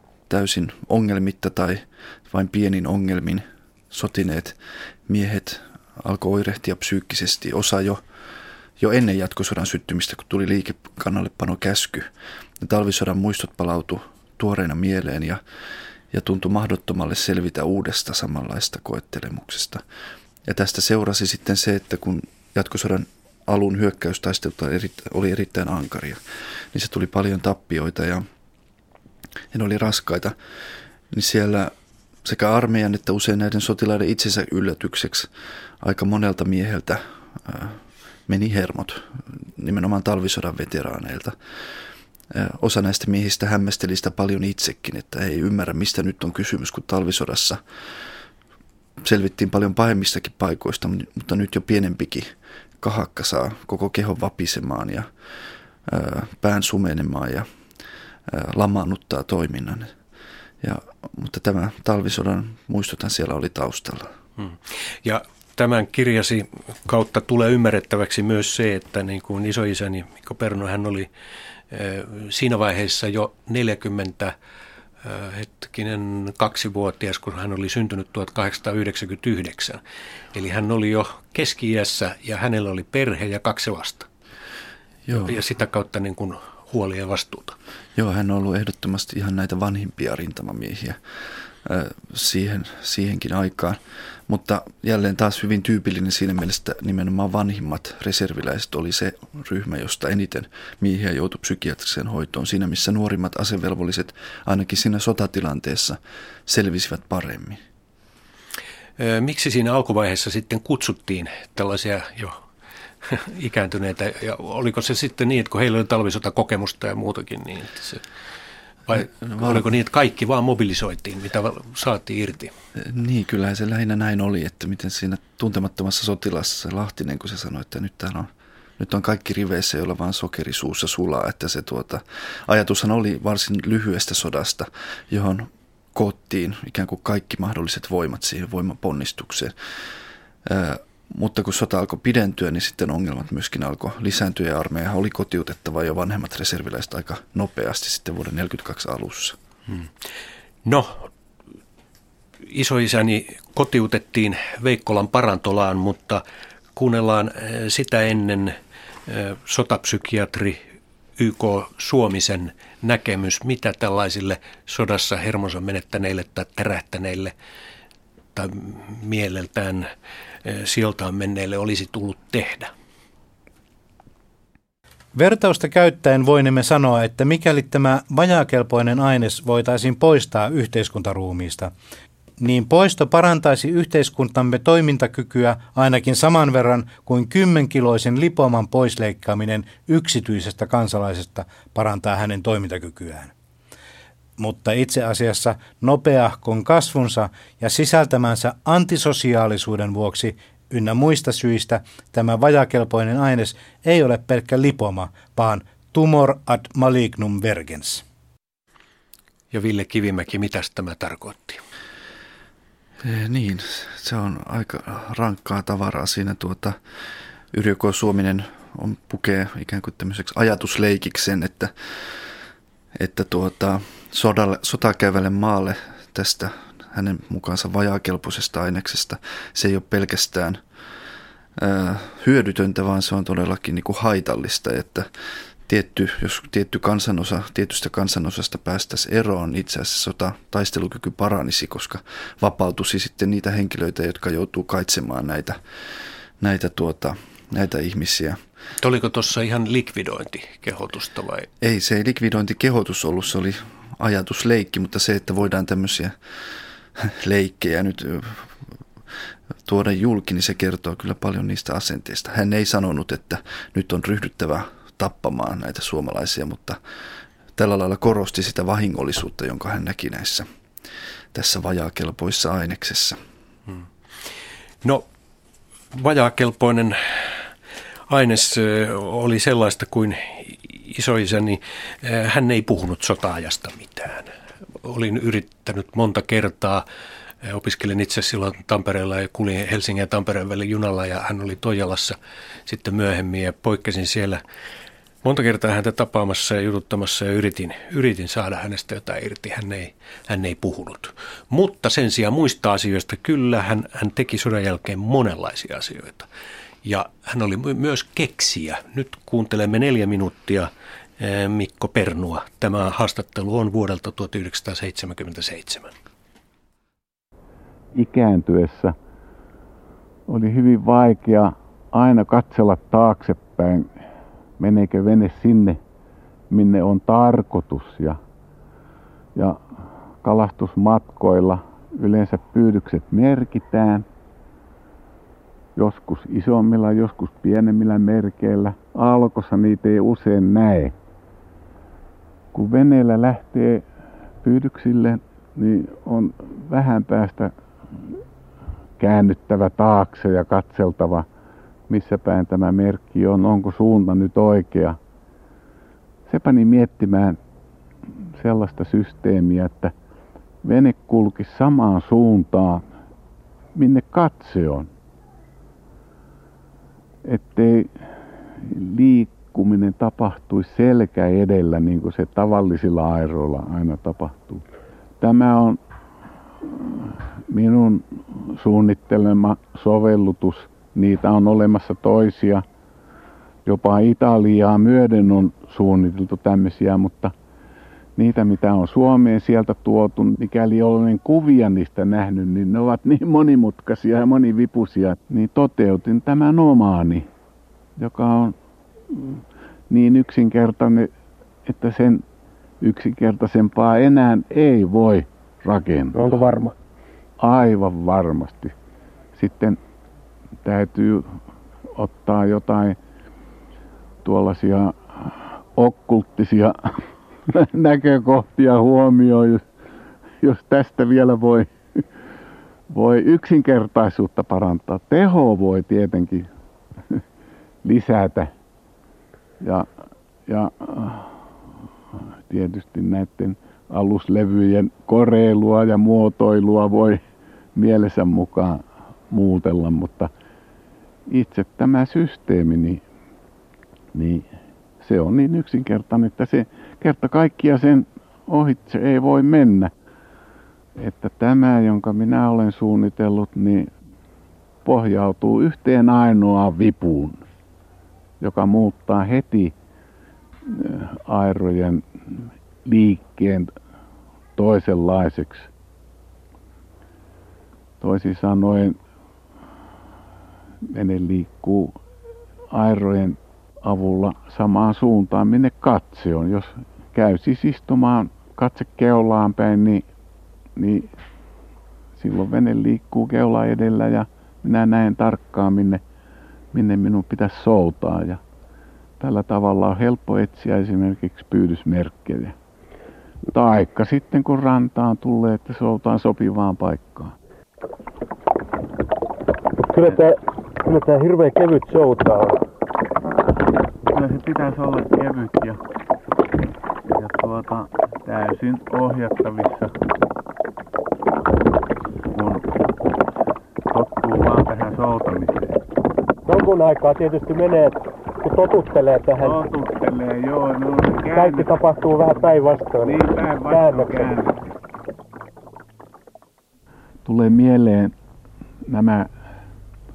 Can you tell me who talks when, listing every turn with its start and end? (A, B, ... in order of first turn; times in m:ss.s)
0:00.3-0:08.0 A
0:08.8-0:12.1 A
0:12.6-0:15.4 A
0:16.1-0:19.8 A
0:20.4-0:26.2 A
0:26.7-0:28.2 A
0:29.5-0:30.3 A
0:31.1-0:31.7 A
0:32.2-0:35.3 A
0:35.8-0:41.4 A
0:42.3-0:47.6 A
0:49.0-0:55.1 A
0:55.9-0:57.5 A
0:58.3-0:59.9 A
1:00.6-1:04.1 A
1:04.4-1:11.1 B
1:11.7-1:14.3 B
1:15.0-1:19.8 B
1:20.3-1:24.1 B
1:25.1-1:25.4 A
1:25.1-1:27.6 B
1:28.0-1:31.0 A
1:31.6-1:47.6 A
1:49.0-1:52.4 B
1:53.0-1:58.0 B
1:58.9-2:02.5 B
1:59.2-1:59.6 A
2:02.8-2:19.6 A
2:20.4-2:29.4 A
2:30.6-2:31.1 B
2:32.5-2:36.2 B
2:36.8-2:38.6 B
2:39.1-2:40.6 B
2:41.2-2:47.3 B
2:48.4-2:49.9 B
2:50.4-2:52.7 B
2:55.2-3:01.7 C
3:02.4-3:13.3 C
3:14.4-3:28.0 C
3:29.5-3:31.6 B
3:33.0-3:36.8 A
3:37.5-3:41.7 A
3:43.0-3:50.6 A
3:51.6-3:55.1 A
3:55.7-4:05.6 A
4:06.4-4:08.4 A
4:08.8-4:11.5 B
4:11.6-4:16.1 A
4:17.0-4:18.5 A
4:19.6-4:26.8 A
4:27.6-4:30.5 A
4:31.3-4:33.2 A
4:35.9-4:37.4 B
4:38.1-4:44.3 B
4:44.8-4:46.8 B
4:47.4-4:54.4 B
4:55.2-5:06.3 B
5:06.8-5:15.9 B
5:17.9-5:19.0 D
5:20.3-5:23.9 D
5:24.6-5:25.8 D
5:26.5-5:28.2 D
5:29.4-5:29.6 D
5:30.2-5:34.1 D
5:35.8-5:41.0 D
5:42.5-5:43.8 D
5:44.4-5:47.5 D
5:49.0-5:51.3 D
5:51.9-5:55.0 D
5:56.3-5:57.4 D
5:58.4-5:59.9 D
6:00.6-6:02.8 D
6:03.8-6:04.9 D
6:07.2-6:07.9 D
6:08.6-6:14.6 D
6:15.2-6:15.8 D
6:16.7-6:22.6 D
6:23.6-6:27.3 D
6:28.2-6:37.3 D
6:38.0-6:38.6 D
6:39.1-6:41.1 D
6:41.6-6:42.2 D
6:42.8-6:46.3 D
6:46.1-6:46.7 E
6:47.4-6:48.8 D
6:49.4-6:49.8 D
6:50.6-6:51.3 D
6:52.0-6:53.0 D
6:54.2-6:59.6 D
7:00.4-7:01.7 D
7:02.9-7:06.5 D
7:07.8-7:08.5 D
7:09.6-7:09.9 D
7:10.5-7:11.3 D
7:12.5-7:17.2 D
7:17.8-7:20.3 D
7:21.3-7:23.0 D
7:24.1-7:24.5 D
7:25.0-7:29.9 D
7:31.0-7:33.9 D
7:34.8-7:37.4 D
7:38.4-7:39.8 D
7:40.7-7:43.7 D
7:44.6-7:45.7 D
7:48.0-7:49.0 D
7:50.9-7:52.0 D
7:52.7-8:00.0 D
8:00.8-8:01.1 D
8:02.2-8:06.0 D
8:06.7-8:08.4 D
8:09.2-8:12.6 D
8:13.5-8:17.4 D
8:19.9-8:22.6 E
8:24.1-8:25.8 D
8:27.1-8:29.9 D
8:32.3-8:32.7 D
8:33.9-8:35.8 D
8:36.4-8:39.6 E
8:39.4-8:41.8 D
8:41.3-8:44.3 E
8:43.0-8:44.7 D
8:47.2-8:48.1 D
8:48.8-8:49.3 D